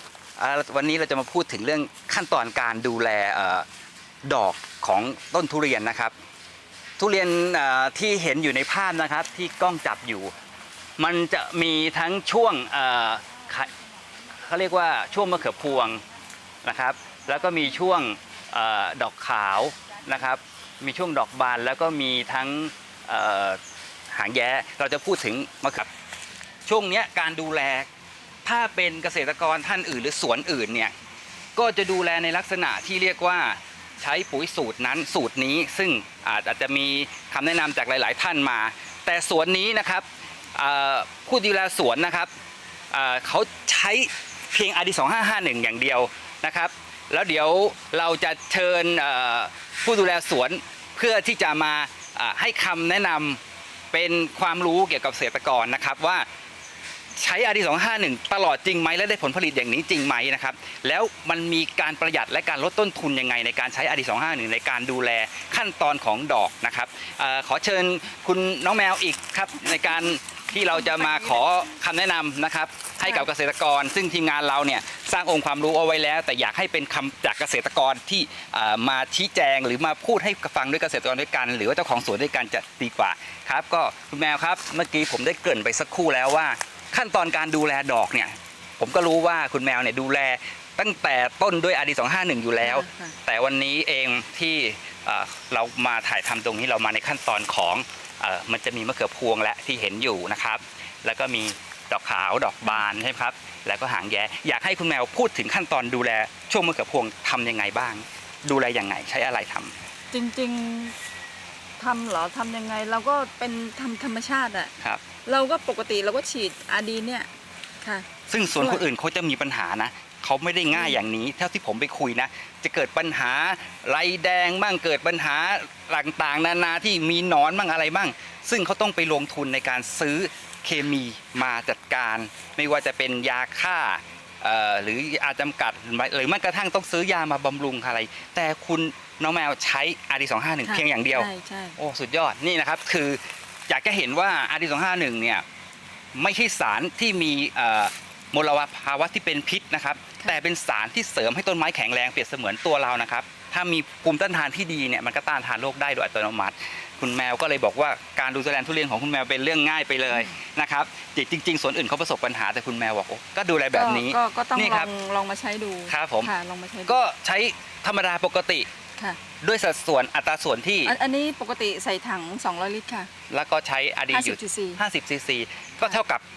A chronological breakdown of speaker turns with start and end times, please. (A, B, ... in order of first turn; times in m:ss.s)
0:00.4-0:03.7 A
0:04.2-0:06.1 A
0:07.0-0:10.3 A
0:11.0-0:13.7 A
0:14.3-0:16.0 A
0:16.6-0:23.6 A
0:24.1-0:25.9 A
0:26.7-0:27.9 A
0:28.4-0:30.9 A
0:31.6-0:42.3 A
0:42.9-0:53.4 A
0:53.9-0:56.2 A
0:57.2-1:49.8 A
1:10.7-1:11.4 B
1:32.6-1:33.2 B
1:50.1-1:50.9 B
1:51.8-1:54.7 B
1:55.2-1:57.3 B
1:57.8-1:58.8 B
1:58.3-2:25.4 A
2:00.7-2:01.0 B
2:20.6-2:21.8 B
2:26.2-2:44.9 A
2:43.7-2:47.1 B
2:45.9-2:46.3 A
2:46.9-2:48.7 A
2:49.4-2:50.9 A
2:50.8-2:53.1 B
2:53.3-2:56.2 A
2:54.1-2:54.8 B